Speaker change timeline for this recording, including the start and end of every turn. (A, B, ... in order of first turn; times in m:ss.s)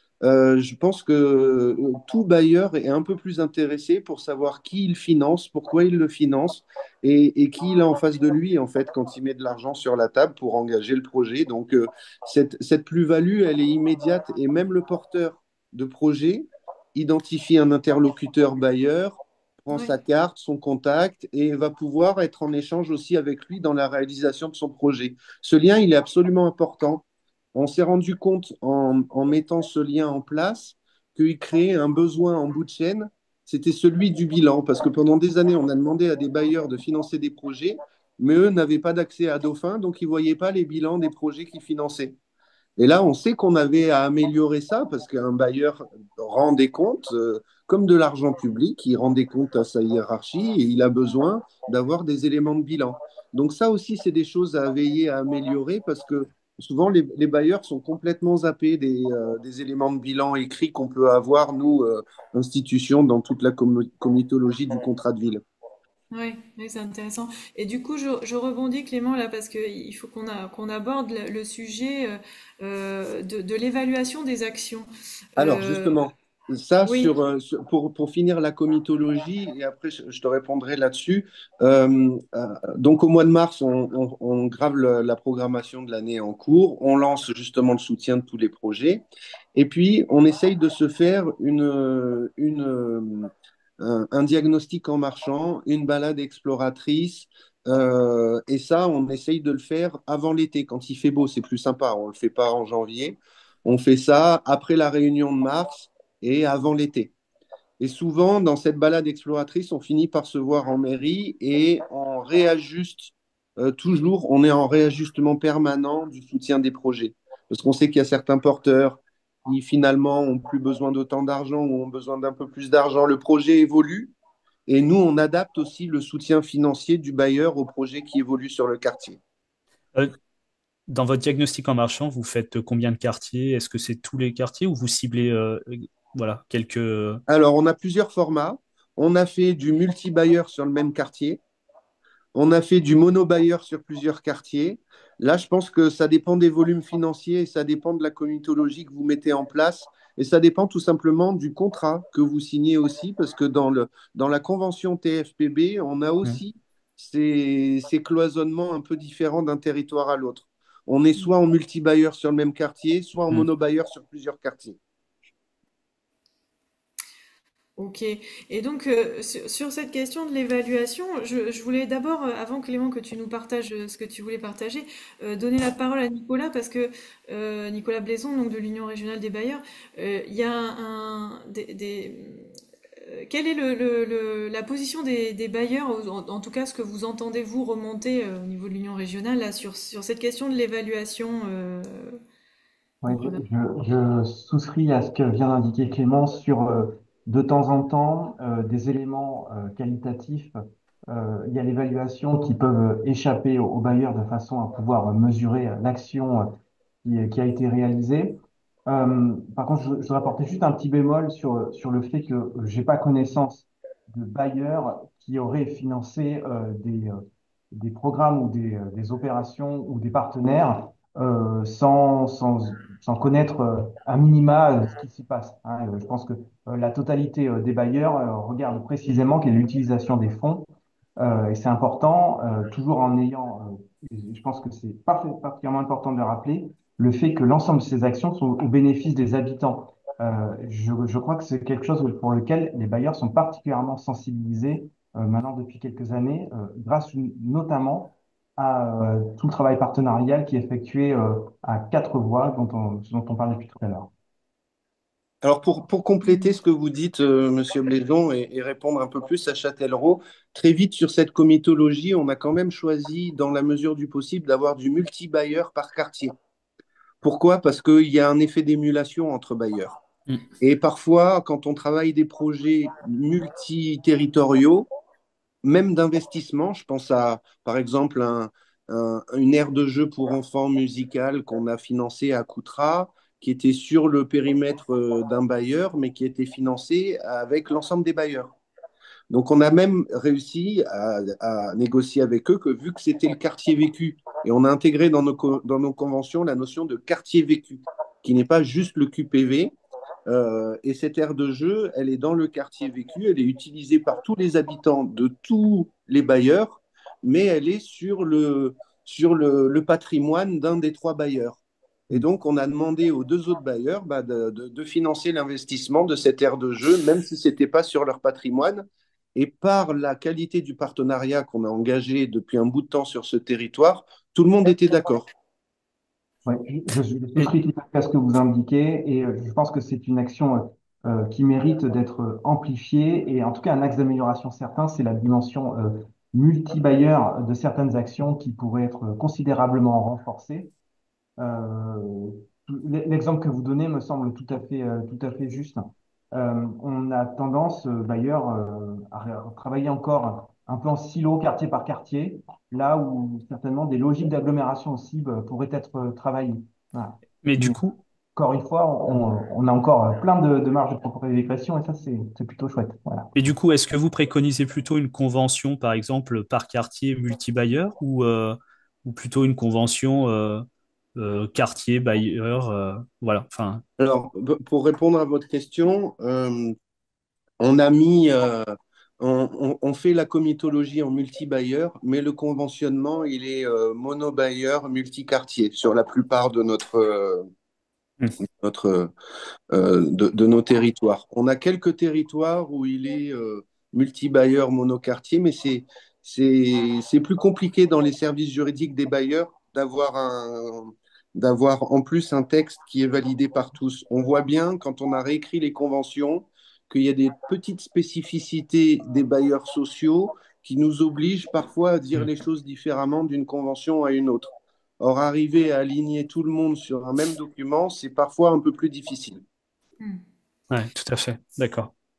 0:00.2-0:42.2 A
0:42.8-1:05.4 A
1:06.1-1:16.0 B
1:15.4-1:29.0 A
1:16.8-1:17.1 B
1:29.5-1:47.1 A
1:47.8-2:04.1 A
2:04.7-2:09.2 A
2:10.9-2:17.2 C
2:17.3-2:21.4 A
2:22.3-2:44.8 A
2:47.8-3:02.5 B
3:03.0-3:12.2 B
3:13.0-3:20.6 D
3:13.1-3:13.4 B
3:21.1-4:14.1 D
4:15.4-4:26.3 A
4:27.2-4:30.0 A
4:30.6-4:34.9 A
4:35.6-4:48.6 A
4:49.3-4:59.7 A
5:00.3-5:25.3 A
5:26.4-5:40.7 D
5:41.4-5:57.8 D
5:57.4-5:58.0 C
5:58.3-6:03.3 D
6:03.3-6:10.6 C
6:11.2-6:13.8 C
6:14.0-6:16.7 A
6:17.6-6:18.7 A
6:19.2-6:27.4 A
6:28.6-6:29.1 A
6:29.7-6:54.5 A
6:55.0-6:59.4 A
7:00.7-7:01.9 C